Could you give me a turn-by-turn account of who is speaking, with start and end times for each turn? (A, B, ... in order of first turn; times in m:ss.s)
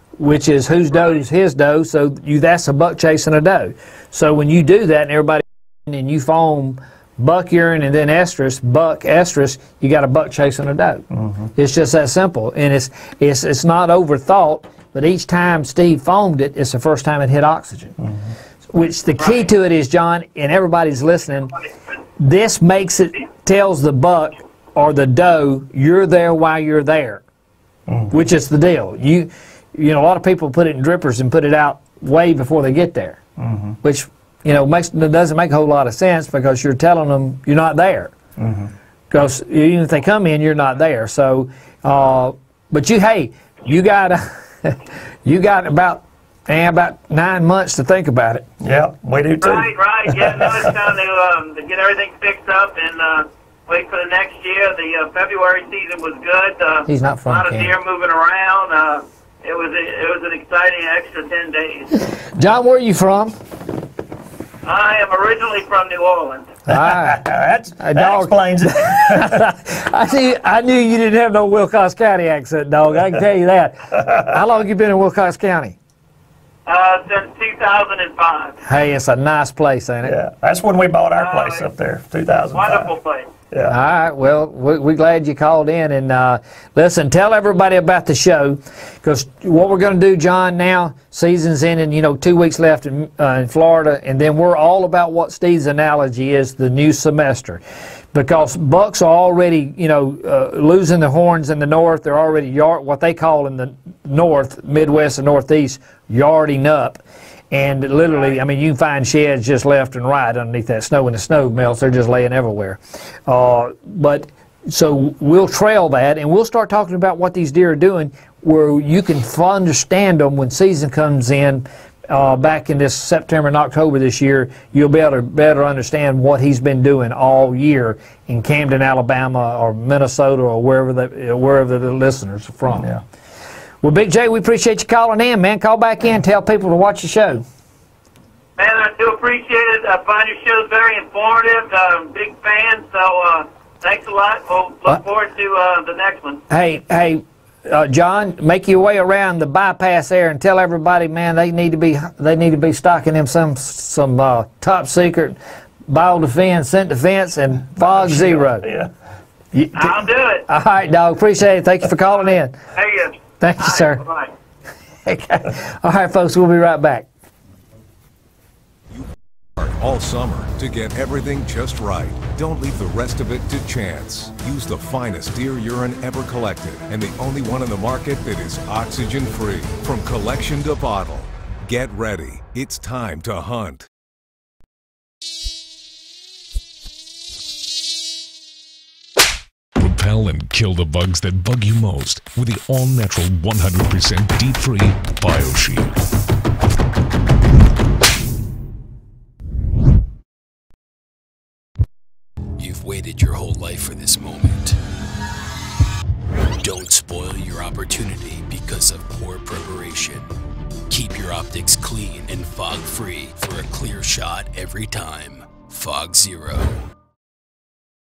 0:00.2-0:11.0 A
0:11.2-0:11.5 B
0:11.6-0:18.0 A
0:18.7-0:21.5 A
0:22.2-0:27.2 A
0:27.9-0:28.1 B
0:28.1-0:33.2 A
0:33.4-0:33.8 B
0:33.8-0:38.1 A
0:38.4-0:38.7 B
0:39.1-0:48.4 A
0:48.6-0:50.7 B
0:49.4-1:02.1 C
0:56.9-0:57.7 A
1:02.3-1:03.3 A
1:04.6-1:06.5 C
1:06.7-1:15.7 A
1:06.7-1:09.4 B
1:16.6-1:18.6 C
1:18.6-1:20.2 A
1:20.0-1:22.9 B
1:21.2-1:21.6 C
1:22.5-1:23.3 C
1:23.7-1:37.6 A
1:38.1-2:12.9 A
2:12.7-2:13.0 B
2:13.8-2:17.4 A
2:18.6-2:26.4 C
2:26.5-2:35.4 A
2:35.9-2:38.7 A
2:37.8-2:38.9 B
2:39.5-2:42.6 A
2:39.8-2:40.4 C
2:42.7-2:44.3 C
2:43.4-2:44.0 A
2:45.0-2:47.1 A
2:49.6-3:03.8 D
3:09.8-3:16.0 E
3:22.6-3:24.8 F
3:26.6-3:30.3 F
3:30.9-3:36.8 F